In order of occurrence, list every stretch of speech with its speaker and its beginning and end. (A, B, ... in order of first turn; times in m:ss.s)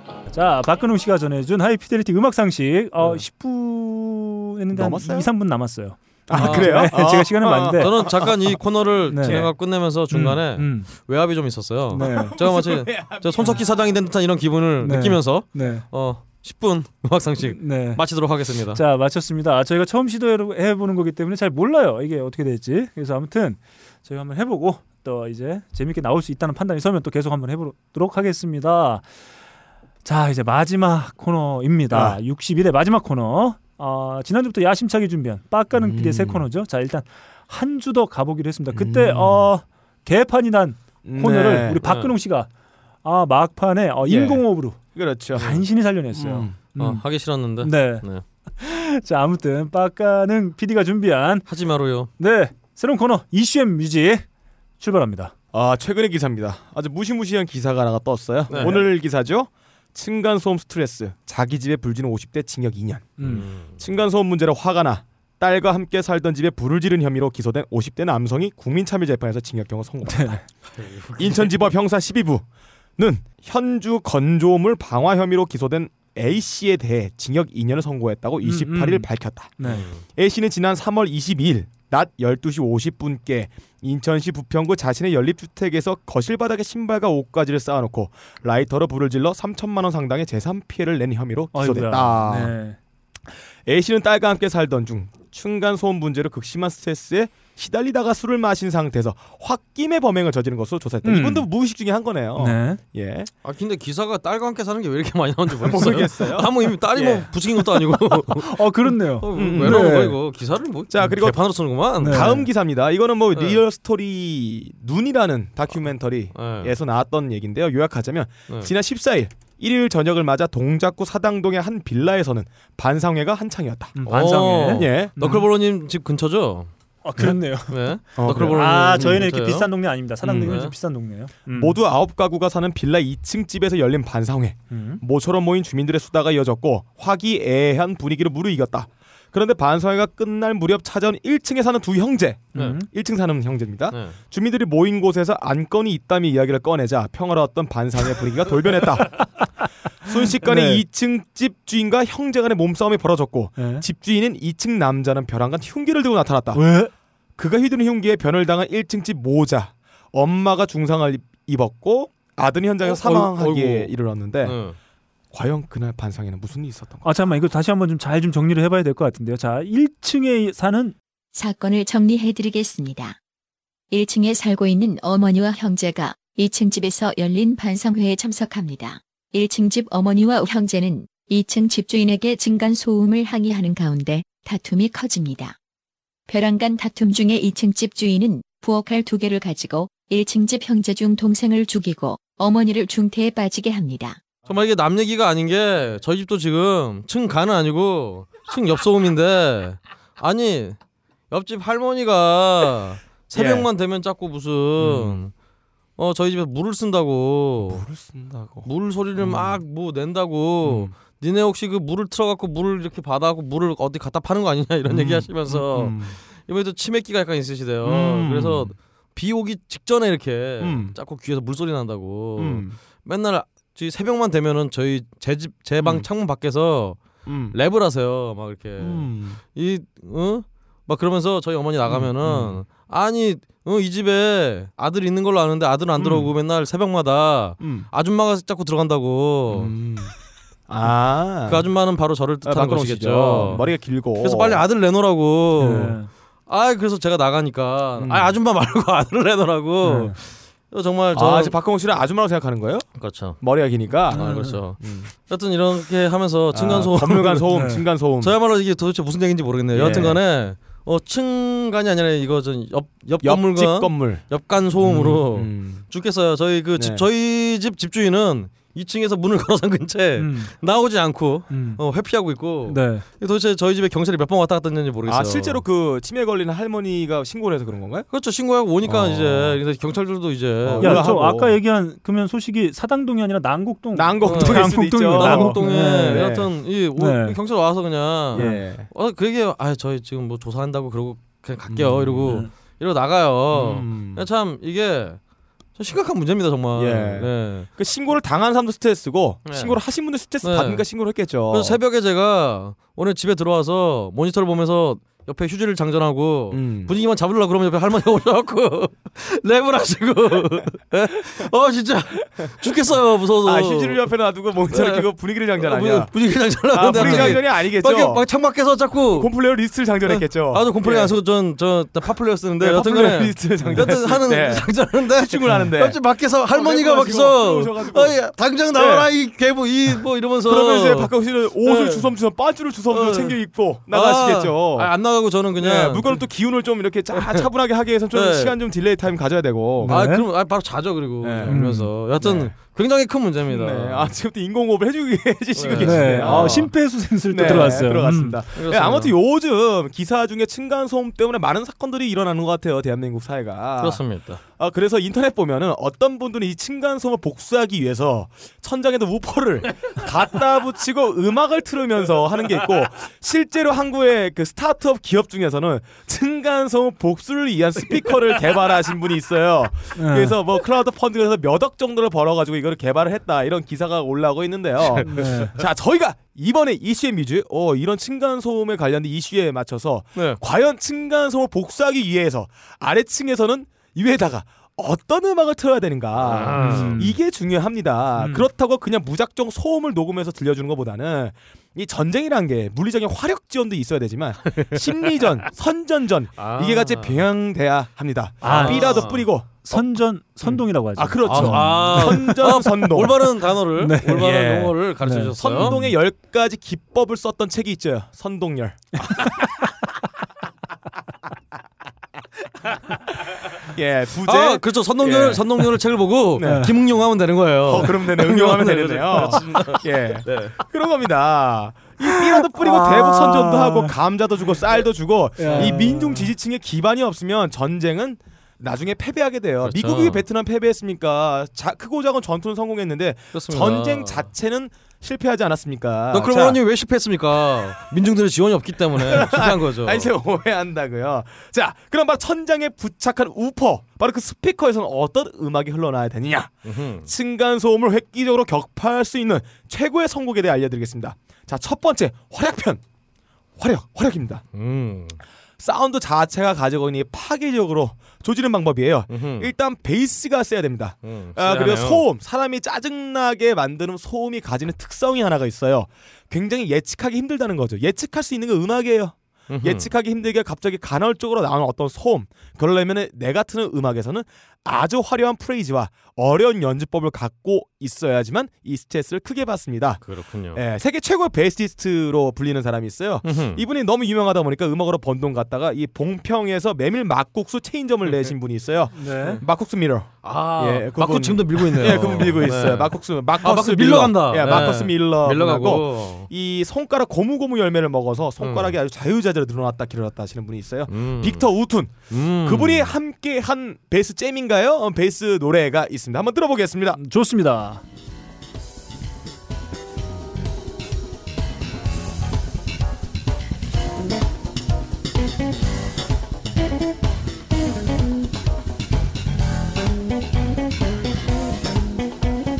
0:00.3-0:07.9 A
0:04.7-0:05.3 B
0:06.3-0:08.6 B
0:06.3-0:06.9 C
0:07.8-0:18.8 C
0:09.1-0:09.4 A
0:09.2-0:09.5 B
0:10.1-0:10.9 A
0:11.9-0:12.4 A
0:12.0-0:13.7 B
0:14.8-0:15.8 A
0:17.5-0:18.0 A
0:18.7-0:29.1 A
0:30.0-0:42.5 A
0:31.9-0:32.2 B
0:35.7-0:36.4 B
0:38.7-0:39.5 B
0:41.0-0:41.8 B
0:41.8-0:42.1 C
0:43.0-0:44.8 A
0:44.0-0:45.6 B
0:45.3-0:47.0 A
0:46.1-0:46.6 B
0:46.8-0:48.2 C
0:47.6-0:48.0 A
0:48.6-0:51.4 A
0:51.5-0:52.1 C
0:52.2-0:54.2 A
0:54.8-0:55.3 A
0:55.5-1:10.6 B
0:58.5-0:58.8 C
0:58.5-0:58.8 A
1:03.2-1:03.4 A
1:03.2-1:03.8 C
1:10.0-1:10.4 A
1:10.7-1:11.6 C
1:11.1-1:12.4 B
1:13.0-1:32.5 B
1:18.4-1:19.8 A
1:19.6-1:20.0 C
1:31.5-1:32.8 A
1:33.3-1:43.3 B
1:41.0-1:41.4 A
1:42.4-1:42.8 A
1:43.4-1:52.4 C
1:45.6-1:47.3 B
1:48.4-1:50.2 A
1:49.3-1:50.0 B
1:50.9-2:04.0 B
1:52.0-1:52.4 A
1:53.3-1:53.6 C
1:56.3-1:56.7 C
2:04.0-2:05.4 A
2:04.1-2:09.7 C
2:04.7-2:05.2 B
2:07.0-2:07.7 A
2:08.2-2:09.2 B
2:08.3-2:11.8 A
2:10.2-2:10.7 C
2:11.5-2:29.5 B
2:14.7-2:15.0 A
2:22.5-2:22.9 A
2:23.9-2:24.2 C
2:30.0-2:36.7 B
2:30.4-2:30.8 A
2:33.6-2:33.8 A
2:36.5-2:36.9 A
2:37.4-2:44.6 B
2:42.8-2:44.8 C
2:45.3-2:47.2 B
2:47.0-2:51.0 A
2:51.3-2:53.2 D
2:53.9-3:05.6 D
3:06.3-3:14.2 D
3:14.5-3:20.8 C
3:21.3-3:25.3 C
3:23.3-3:23.7 B
3:24.8-3:25.2 B
3:26.0-3:27.8 C
3:27.6-3:29.6 B
3:28.6-3:59.7 C
3:30.6-3:30.9 B
3:34.9-3:36.2 B
3:37.8-3:38.7 B
3:40.6-3:41.0 B
3:42.4-3:42.8 B
3:45.8-3:46.1 B
3:47.2-3:47.6 B
3:48.8-3:49.4 B
3:51.8-3:52.6 B
3:56.0-3:56.3 B
3:57.6-3:57.9 B
3:59.5-4:00.1 B
4:00.7-4:01.7 B
4:01.5-4:03.6 C
4:02.4-4:04.6 B
4:04.2-4:11.6 C
4:05.6-4:06.1 A
4:08.0-4:08.4 B
4:09.8-4:10.1 A
4:11.1-4:15.1 B
4:13.0-4:13.4 C
4:14.0-4:17.5 C
4:14.1-4:14.6 A
4:16.5-4:18.3 B
4:17.5-4:17.8 A
4:18.2-4:35.6 C
4:19.7-4:20.2 B
4:19.8-4:20.1 A
4:23.2-4:25.9 B
4:26.8-4:27.0 B
4:30.2-4:30.5 A
4:31.5-4:31.8 A
4:32.7-4:33.0 A
4:35.0-4:38.1 B
4:38.1-4:41.1 C
4:38.8-4:39.6 B
4:40.6-4:41.6 B
4:40.8-4:46.3 A
4:43.9-4:46.5 B
4:44.2-4:55.2 C
4:47.0-4:47.4 A
4:48.3-4:48.9 B
4:51.7-4:52.4 B
4:52.2-4:52.5 A
4:53.5-4:54.2 B
4:55.8-4:57.7 C
4:56.8-5:01.8 B
4:59.4-4:59.8 C
5:00.4-5:00.8 C
5:01.5-5:14.1 C
5:06.5-5:06.9 B
5:13.4-5:18.2 B
5:14.7-5:19.3 C
5:16.9-5:17.4 A
5:19.1-5:21.1 B
5:20.0-5:31.1 C
5:22.6-5:28.2 B
5:28.7-5:29.1 B
5:30.4-5:34.9 B
5:31.6-5:32.1 C
5:32.9-5:36.2 C
5:35.6-5:40.0 B
5:37.1-5:37.4 C
5:38.1-5:38.5 C
5:39.8-5:40.2 A
5:39.9-5:44.1 C
5:41.2-5:42.5 B
5:41.5-5:41.9 A
5:43.5-6:39.8 B
5:45.6-5:46.7 C
5:45.7-5:48.4 A
5:47.4-5:48.0 C
5:48.6-5:49.1 C
5:53.8-5:54.4 C
6:09.9-6:10.4 A
6:15.0-6:15.5 A
6:26.2-6:27.0 C
6:26.6-6:27.1 A
6:34.5-6:34.8 C
6:36.4-6:37.2 C
6:38.4-6:42.3 A
6:38.4-6:39.2 C
6:40.4-6:43.3 B
6:41.2-6:45.7 C
6:43.8-6:44.3 A
6:44.2-6:44.8 B
6:45.0-6:45.9 A
6:45.3-6:49.4 B
6:53.6-6:55.7 B
6:54.2-7:00.6 C
6:56.3-6:56.8 B
6:56.4-6:56.7 A
6:57.6-7:16.6 B
7:02.3-7:03.9 A
7:05.4-7:06.3 A
7:05.4-7:05.8 C
7:09.6-7:10.2 C
7:13.3-7:14.3 C
7:16.1-7:20.1 C
7:19.0-7:32.8 B
7:26.6-7:27.1 C
7:33.6-7:34.4 B
7:34.5-7:35.2 C
7:35.6-8:27.0 B
7:39.1-7:39.5 C
7:41.0-7:42.0 C
7:49.5-7:49.9 C
8:00.0-8:00.6 C
8:03.2-8:03.6 C
8:08.0-8:08.3 C
8:09.0-8:09.4 A
8:09.1-8:09.4 C
8:10.2-8:16.3 C
8:18.4-8:18.7 C
8:20.9-8:22.9 C
8:27.0-8:27.8 A